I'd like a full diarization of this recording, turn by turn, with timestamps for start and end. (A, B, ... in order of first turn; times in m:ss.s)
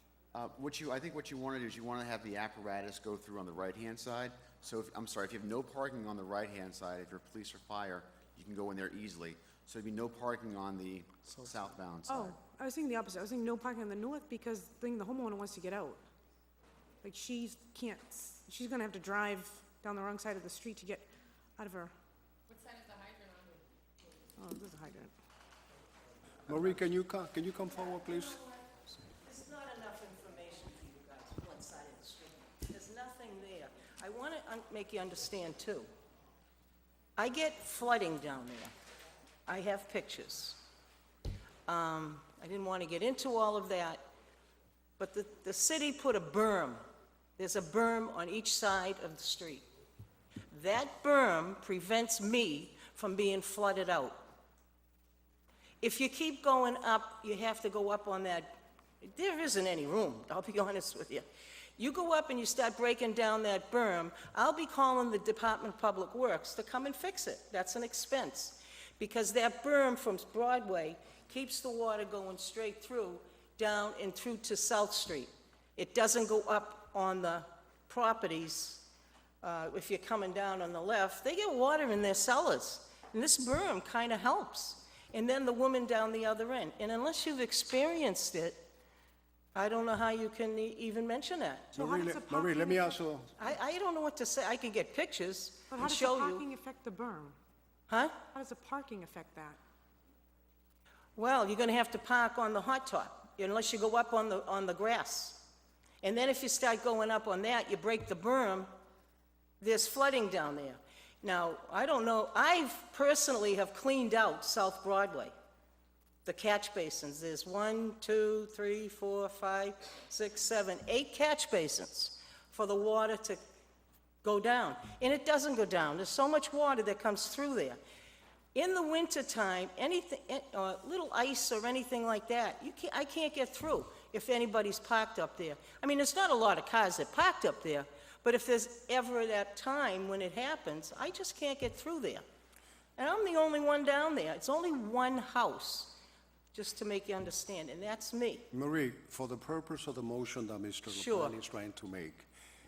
0:00.3-0:12.4 A
0:12.1-0:16.0 B
0:17.0-0:21.9 B
0:24.4-0:25.1 B
0:26.5-0:28.4 C
0:27.9-0:35.9 D
0:37.2-0:38.7 D
0:39.5-0:40.6 D
0:41.7-0:44.0 D
0:45.0-0:46.8 D
0:47.4-0:49.7 D
0:50.5-0:54.2 D
0:55.8-0:58.5 D
0:59.0-1:01.2 D
1:01.8-1:18.9 D
1:19.4-1:28.6 D
1:29.5-1:31.8 D
1:31.8-1:32.9 B
1:31.8-1:33.4 C
1:33.4-1:36.4 D
1:35.7-1:37.4 B
1:37.9-1:38.2 D
1:38.3-1:39.6 B
1:41.2-1:45.4 D
1:46.0-1:48.7 D
1:49.6-1:55.3 D
1:56.2-2:03.4 D
2:04.2-2:07.8 D
2:08.5-2:22.2 D
2:23.0-2:25.9 D
2:26.5-2:28.4 D
2:28.5-2:32.3 C
2:30.9-2:31.4 D